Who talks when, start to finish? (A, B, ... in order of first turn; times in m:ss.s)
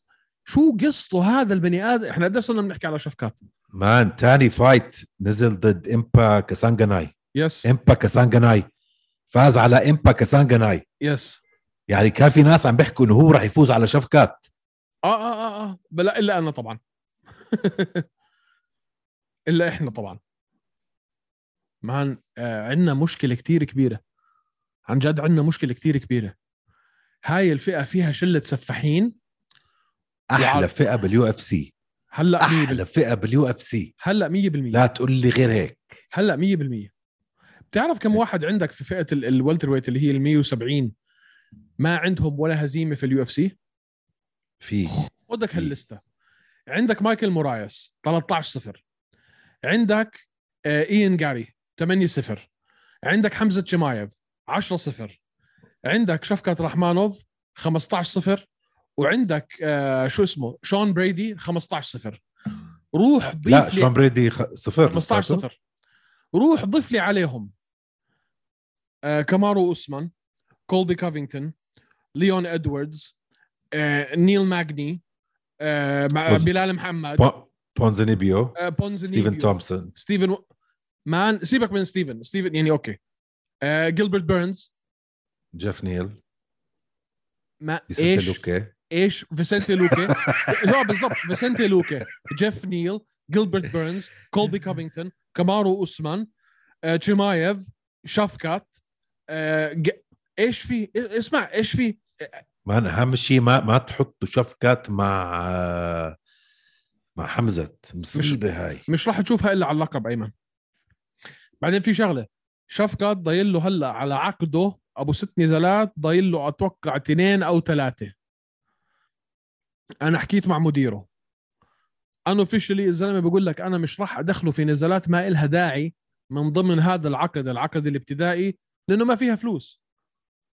0:00.5-0:03.5 A
0:03.7-0:07.1 B
0:07.4-0:07.7 A
0:07.6-0:08.7 B
0:09.3-0:10.8 B
0:11.0-0:11.4 A
0:11.9-0:14.5 B
0:15.0-0:16.8 A
0:17.5-0:18.0 A
0:19.5-0:20.2 A
0:21.8-0:24.0 A
0:24.9-0:26.3 A
0:27.3-0:29.1 A
0:30.3-0:31.7 B
0:30.4-0:30.7 A
0:32.1-0:32.8 A
0:32.4-0:33.9 B
0:34.0-0:34.8 A
0:34.7-0:36.0 B
0:36.1-0:36.9 A
0:37.7-0:40.9 A
0:41.8-0:43.6 A
0:44.6-0:45.7 B
0:44.9-0:46.0 A
0:46.7-0:48.8 A
0:49.6-0:52.5 A
0:53.0-0:55.2 A
0:55.9-0:58.4 A
0:59.0-1:02.2 A
1:02.9-1:03.9 A
1:03.4-1:05.4 B
1:04.8-1:05.6 A
1:06.3-1:07.5 A
1:09.0-1:10.1 A
1:10.7-1:11.5 A
1:12.2-1:13.1 A
1:13.7-1:15.0 A
1:15.6-1:17.3 A
1:16.3-1:16.5 B
1:17.2-1:18.6 B
1:18.6-1:20.4 A
1:19.1-1:19.9 B
1:21.1-1:23.0 A
1:23.6-1:24.7 A
1:25.5-1:26.2 B
1:27.6-1:36.3 A
1:27.9-1:28.7 B
1:29.6-1:31.6 B
1:36.8-1:42.4 A
1:42.7-1:46.2 B
1:47.2-1:48.8 B
1:48.1-1:50.3 A
1:51.6-1:58.1 A
2:00.0-2:01.1 A
2:02.3-2:09.8 A